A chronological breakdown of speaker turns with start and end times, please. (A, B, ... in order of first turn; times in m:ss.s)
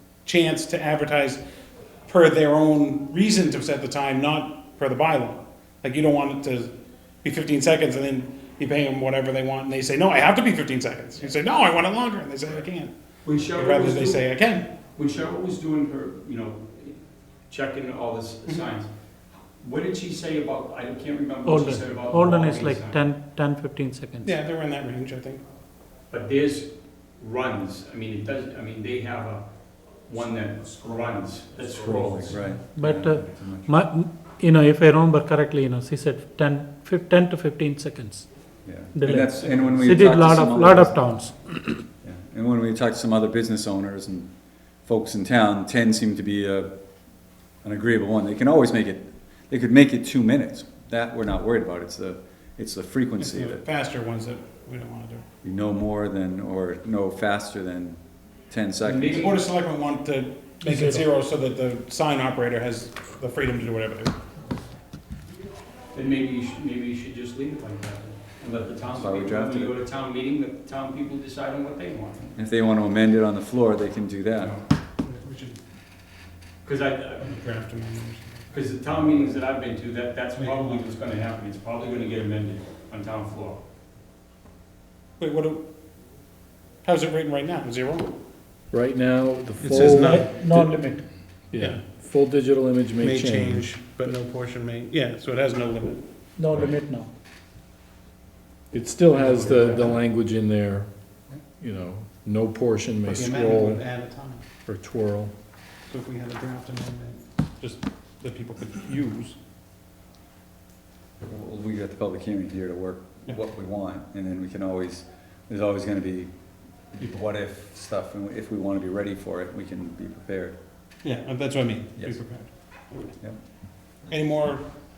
0:00.2-0:01.4 A
0:02.1-0:06.7 A
0:07.2-0:12.9 A
0:13.2-0:14.3 B
0:13.5-0:14.7 A
0:14.8-0:16.9 B
0:17.5-0:18.9 B
0:19.6-0:23.0 B
0:21.4-0:24.4 C
0:24.2-0:25.4 A
0:26.1-0:29.4 B
0:30.1-0:32.4 B
0:31.8-0:33.8 D
0:32.6-0:38.3 C
0:38.6-0:41.0 D
0:38.9-0:41.7 C
0:42.0-0:44.3 D
0:44.9-0:46.7 D
0:47.6-0:53.6 D
0:53.2-0:55.2 A
0:55.4-0:59.4 D
0:58.8-0:59.4 B
0:59.2-1:04.2 A
1:00.6-1:01.1 C
1:05.9-1:12.3 B
1:08.9-1:09.8 D
1:12.4-1:14.6 D
1:15.0-1:15.6 A
1:16.6-1:17.3 B
1:17.2-1:18.4 A
1:18.5-1:23.6 B
1:18.9-1:19.4 D
1:20.4-1:20.8 A
1:25.2-1:25.6 A
1:26.8-1:28.2 A
1:28.7-1:30.8 E
1:29.6-1:30.4 A
1:29.9-1:31.0 C
1:31.5-1:33.7 E
1:33.0-1:36.0 A
1:36.4-1:37.1 C
1:38.7-1:40.9 E
1:39.1-1:40.0 A
1:41.6-1:43.8 E
1:43.1-1:44.4 A
1:44.7-1:45.3 E
1:45.9-1:49.4 A
1:51.2-1:56.3 D
1:56.9-2:00.6 D
2:01.0-2:03.2 A
2:04.1-2:04.6 A